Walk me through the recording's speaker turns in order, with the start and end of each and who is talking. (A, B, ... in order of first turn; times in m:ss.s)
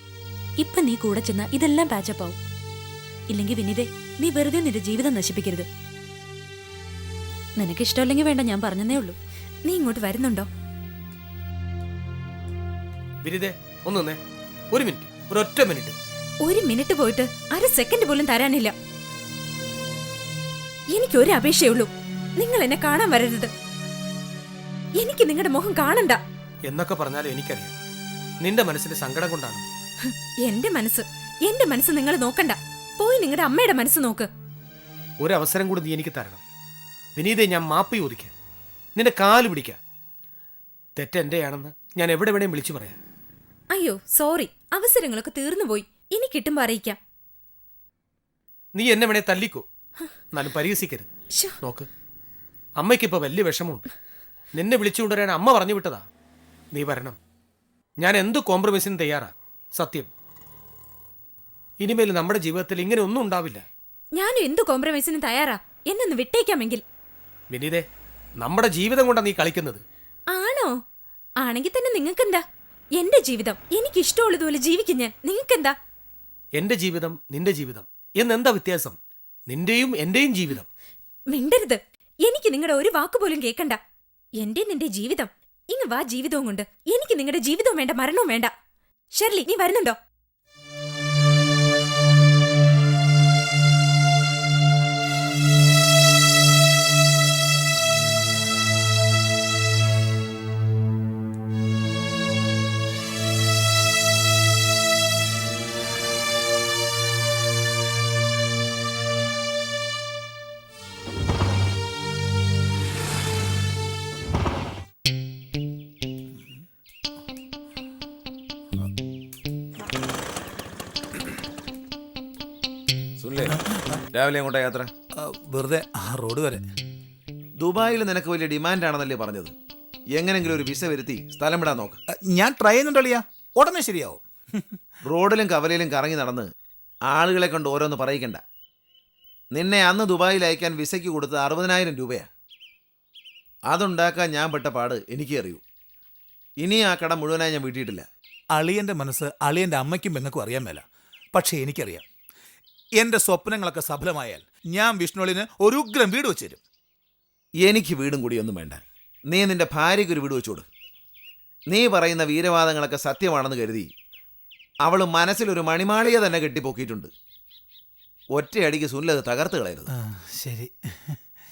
0:00.6-0:02.4 A
0:03.3-0:05.7 A
0:07.6-0:09.2 A
0:09.6-0:10.5 B
0:13.2-0:14.2 C
0:14.7-0:16.0 C
0:16.4-0:18.7 B
0:20.9-0:23.5 B
0:25.0-0:26.2 B
0:26.6-0:27.7 C
0:28.4-0:29.6 C
0:30.0-0:34.3 B
0:35.2-0:36.4 C
0:37.2-0:38.3 C
0:39.0-0:39.8 C
0:41.0-0:43.0 C
0:43.7-0:47.0 B
0:48.7-0:49.6 C
0:50.3-0:51.1 C
0:51.6-0:51.9 C
0:52.8-0:53.8 C
0:54.5-0:56.0 C
0:56.7-0:57.2 C
0:58.0-1:00.1 C
1:01.8-1:03.6 C
1:04.1-1:06.8 B
1:07.5-1:07.8 C
1:08.4-1:09.8 C
1:10.3-1:10.8 B
1:11.4-1:12.4 B
1:13.0-1:15.8 B
1:16.5-1:19.0 C
1:19.5-1:20.7 C
1:21.3-1:23.8 B
1:24.4-1:28.5 B
1:29.1-1:30.0 B
2:03.2-2:03.6 D
2:03.4-2:03.8 E
2:04.1-2:04.9 D
2:05.2-2:06.6 E
2:07.6-2:09.5 D
2:10.1-2:12.0 D
2:12.2-2:14.2 E
2:15.0-2:16.5 D
2:17.1-2:18.4 D
2:19.5-2:22.3 D
2:23.7-2:25.6 D
2:26.6-2:28.0 D
2:28.5-2:30.8 E
2:31.3-2:32.0 E
2:33.0-2:36.6 E
2:37.6-2:40.6 D
2:41.7-2:43.9 D
2:44.8-2:47.1 D
2:48.3-2:49.9 D
2:50.1-2:51.2 E